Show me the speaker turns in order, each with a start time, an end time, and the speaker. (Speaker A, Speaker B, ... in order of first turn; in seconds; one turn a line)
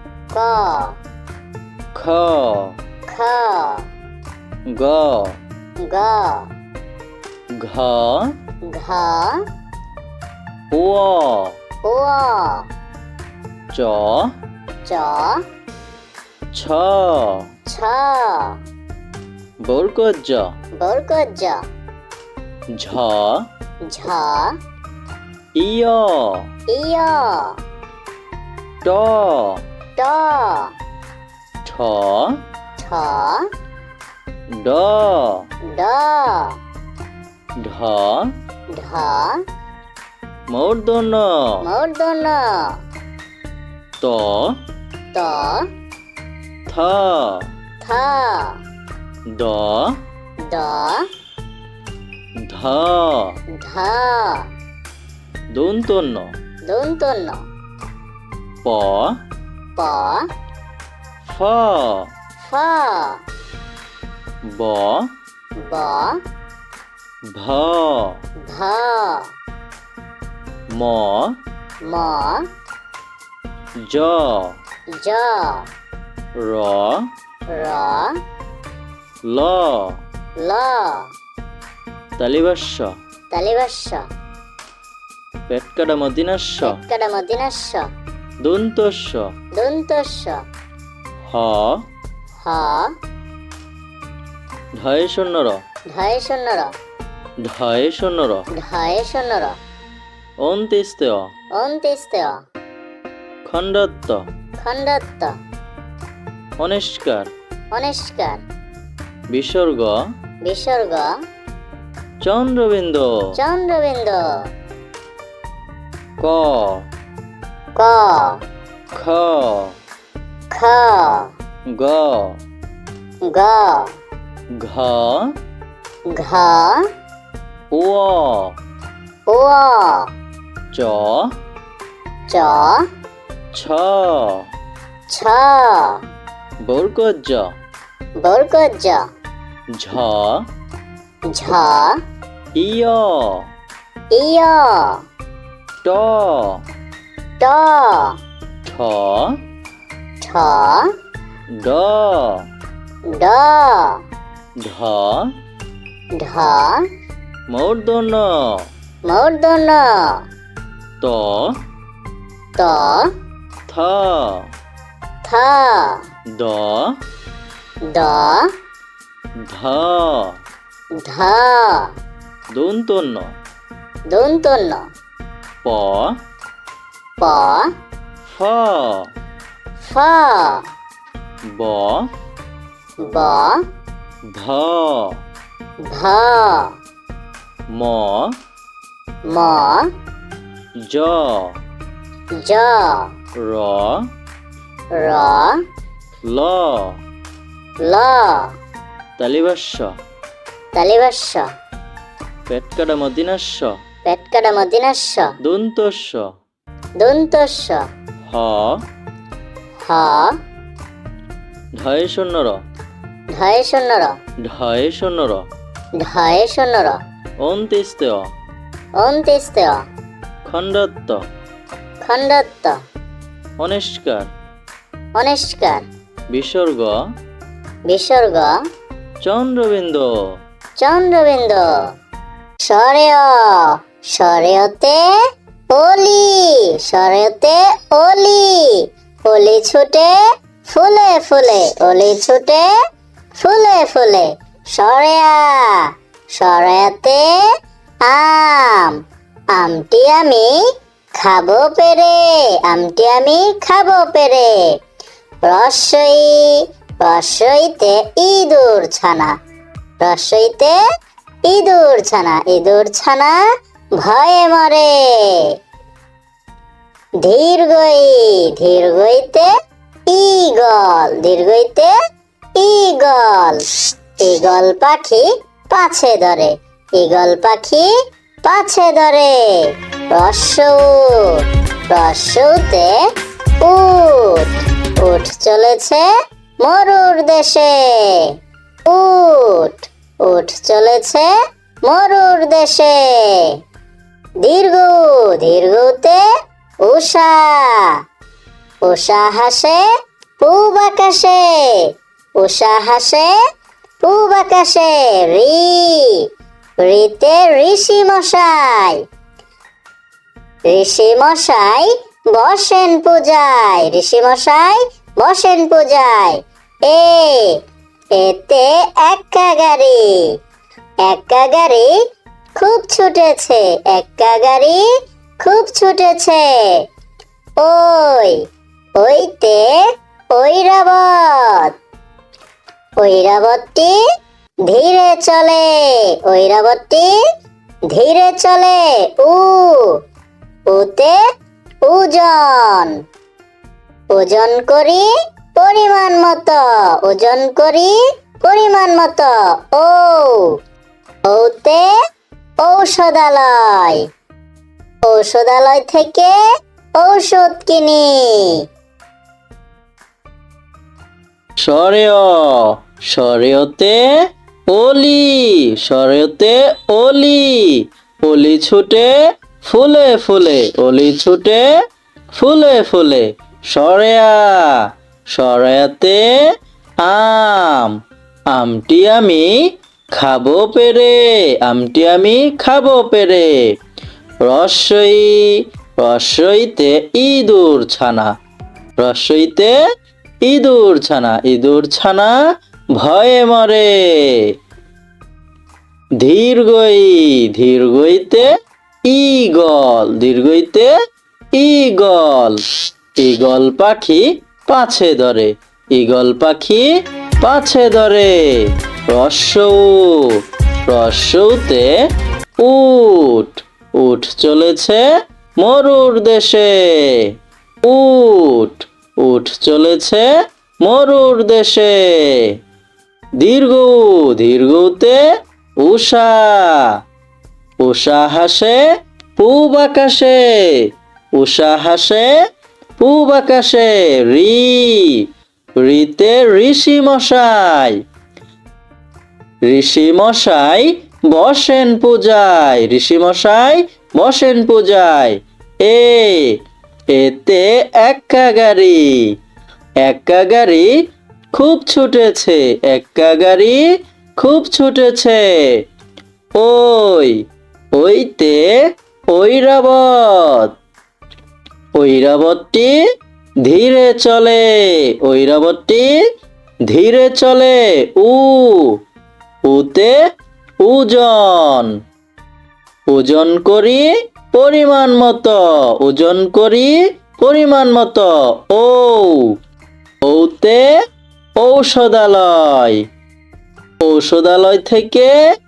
Speaker A: 0.3-1.0
Speaker B: 1.9-2.8
Speaker A: 3.1-3.9
Speaker B: 4.7-5.4
Speaker A: 5.8-6.5
Speaker B: 7.5-8.3
Speaker A: 8.7-9.4
Speaker B: 10.7-11.6
Speaker A: 11.8-12.7
Speaker B: 13.7-14.3
Speaker A: 14.8-15.4
Speaker B: 16.5-17.5
Speaker A: 17.7-18.6
Speaker B: 19.6-20.6
Speaker A: 20.8-21.7
Speaker B: 22.7-23.5
Speaker A: 23.9-24.6
Speaker B: 25.6-26.5
Speaker A: 26.7-27.6
Speaker B: 28.8-29.6
Speaker A: 30.0-30.7
Speaker B: 31.6-32.4
Speaker A: 32.8-33.5
Speaker B: 34.5-35.5
Speaker A: 35.7-36.6
Speaker B: 37.6-38.3
Speaker A: 38.7-39.4
Speaker B: 40.5-41.6
Speaker A: 41.6-42.8
Speaker B: 44.0-44.6
Speaker A: 45.1-45.7
Speaker B: 46.7-47.5
Speaker A: 47.8-48.6
Speaker B: 49.4-50.0
Speaker A: 50.5-51.1
Speaker B: 52.5-53.4
Speaker A: 53.6-54.5
Speaker B: 55.5-56.4
Speaker A: 56.7-57.5
Speaker B: 58.6-59.2
Speaker A: 59.8-60.3
Speaker B: 61.2-62.1
Speaker A: 62.4-63.2
Speaker B: 64.5-65.1
Speaker A: 65.6-66.2
Speaker B: 67.3-68.2
Speaker A: 68.5-69.3
Speaker B: 70.7-71.4
Speaker A: 71.9-72.4
Speaker B: 73.8-74.6
Speaker A: 74.9-75.7
Speaker B: 76.4-77.1
Speaker A: 77.5-78.2
Speaker B: 79.3-80.0
Speaker A: 80.4-81.1
Speaker B: 82.2-82.9
Speaker A: 83.3-84.0
Speaker B: 85.5-86.8
Speaker A: 86.6-87.9
Speaker B: 88.4-89.3
Speaker A: 89.6-90.4
Speaker B: 91.3-91.8
Speaker A: 92.4-92.9
Speaker B: 94.8-95.6
Speaker A: 95.9-96.7
Speaker B: 97.4-98.5
Speaker A: 98.6-99.6
Speaker B: 100.4-101.3
Speaker A: 101.6-102.4
Speaker B: 103.5-104.2
Speaker A: 104.6-105.3
Speaker B: 106.6-107.3
Speaker A: 107.7-108.4
Speaker B: 109.3-110.0
Speaker A: 110.5-111.1
Speaker B: 112.2-113.4
Speaker A: 113.4-114.5
Speaker B: 116.2-116.9
Speaker A: 117.8-118.4
Speaker B: 118.9-119.8
Speaker A: 120.5-121.3
Speaker B: 121.7-122.4
Speaker A: 123.3-123.9
Speaker B: 124.5-125.3
Speaker A: 126.1-126.8
Speaker B: 127.7-128.6
Speaker A: 129.3-130.1
Speaker B: 130.7-131.3
Speaker A: 132.3-132.9
Speaker B: 133.5-134.5
Speaker A: 135.1-136.1
Speaker B: 136.6-137.6
Speaker A: 138.2-139.1
Speaker B: 139.7-140.5
Speaker A: 141.3-142.0
Speaker B: 142.6-143.5
Speaker A: 144.1-145.0
Speaker B: 145.8-146.6
Speaker A: 147.4-148.2
Speaker B: 148.7-149.4
Speaker A: 150.2-150.9
Speaker B: 151.6-152.5
Speaker A: 153.1-154.0
Speaker B: 154.6-155.3
Speaker A: 156.2-156.8
Speaker B: 157.5-158.7
Speaker A: 159.1-160.2
Speaker B: 161.0-161.6
Speaker A: 162.6-163.1
Speaker B: 163.7-164.5
Speaker A: 165.2-166.0
Speaker B: 166.4-167.0
Speaker A: 167.9-168.5
Speaker B: 169.5-170.4
Speaker A: 171.0-171.9
Speaker B: 172.5-173.3
Speaker A: 174.1-174.9
Speaker B: 175.6-176.2
Speaker A: 177.2-177.7
Speaker B: 178.2-179.1
Speaker A: 179.8-180.7
Speaker B: 181.5-182.1
Speaker A: 183.0-183.6
Speaker B: 184.3-185.2
Speaker A: 185.8-186.8
Speaker B: 187.7-188.3
Speaker A: 189.3-189.9
Speaker B: 190.9-191.6
Speaker A: 192.4-193.1
Speaker B: 193.4-194.1
Speaker A: 194.9-195.6
Speaker B: 196.3-197.0
Speaker A: 197.9-198.6
Speaker B: 199.2-199.9
Speaker A: 200.8-201.5
Speaker B: 202.5-203.8
Speaker A: 204.1-205.3
Speaker B: 205.4-206.3
Speaker A: 207.0-207.8
Speaker B: 208.3-208.8
Speaker A: 209.9-210.3
Speaker B: 211.8-212.6
Speaker A: 213.3-214.2
Speaker B: 214.4-215.5
Speaker A: 216.0-217.0
Speaker B: 217.4-218.3
Speaker A: 219.0-219.8
Speaker B: 220.4-221.2
Speaker A: 222.1-222.8
Speaker B: 223.6-224.3
Speaker A: 225.2-225.9
Speaker B: 226.3-227.0
Speaker A: 227.9-228.5
Speaker B: 229.2-230.1
Speaker A: 230.8-231.7
Speaker A: 232.6-235.0
Speaker A: 235.7-242.7
Speaker A: 243.4-247.3
Speaker A: 248.1-249.0
Speaker A: 249.6-250.7
Speaker A: 251.2-254.6
Speaker A: 255.4-259.4
Speaker A: 260.0-260.8
Speaker A: 261.4-263.4
Speaker A: 264.0-265.5
Speaker A: 267.2-269.5
Speaker A: 270.1-271.9
Speaker A: 272.6-277.9
Speaker A: 278.4-283.0
Speaker A: 283.6-286.1
Speaker A: 286.6-288.4
Speaker A: 288.9-291.3
Speaker A: 291.9-293.6
Speaker A: 294.4-296.2
Speaker A: 296.8-298.0
Speaker A: 298.9-299.8
Speaker A: 300.4-303.3
Speaker A: 304.0-306.3
Speaker A: 306.8-309.0
Speaker A: 310.7-317.6
Speaker A: 318.1-320.4
Speaker A: 321.0-321.9
Speaker A: 322.6-324.9
Speaker A: 325.4-326.9
Speaker A: 327.6-328.4
Speaker A: 329.0-329.8
Speaker A: 330.3-331.8
Speaker A: 333.0-334.0
Speaker A: 334.7-337.1
Speaker A: 337.9-340.0
Speaker A: 340.7-341.2
Speaker A: 341.8-343.0
Speaker A: 344.1-350.6
Speaker A: 351.3-351.9
Speaker A: 352.6-354.0
Speaker A: 355.1-356.4
Speaker A: 357.0-358.6
Speaker B: 361.6-364.0
Speaker B: 364.7-371.6
Speaker B: 372.3-376.2
Speaker B: 377.0-377.9
Speaker B: 378.5-379.5
Speaker B: 380.1-383.6
Speaker B: 384.4-388.3
Speaker B: 389.0-389.8
Speaker B: 390.4-392.4
Speaker B: 392.9-394.5
Speaker B: 396.2-398.5
Speaker B: 399.1-400.9
Speaker B: 401.6-402.6
Speaker B: 403.2-406.9
Speaker B: 407.4-411.9
Speaker B: 412.6-415.0
Speaker B: 415.6-417.3
Speaker B: 417.8-420.3
Speaker B: 420.8-422.5
Speaker B: 423.4-425.2
Speaker B: 425.8-426.9
Speaker B: 427.8-428.8
Speaker B: 429.4-430.8
Speaker B: 431.4-432.3
Speaker B: 433.0-435.2
Speaker B: 435.8-438.0
Speaker B: 439.7-446.6
Speaker B: 447.1-449.3
Speaker B: 450.0-450.9
Speaker B: 451.5-453.8
Speaker B: 454.4-455.8
Speaker B: 456.6-457.4
Speaker B: 457.9-458.7
Speaker B: 459.3-460.7
Speaker B: 461.9-462.9
Speaker B: 463.6-466.1
Speaker B: 466.9-469.0
Speaker B: 469.6-470.1
Speaker B: 470.8-471.9
Speaker B: 473.1-479.5
Speaker B: 480.2-480.9
Speaker B: 481.6-483.0
Speaker B: 484.0-485.3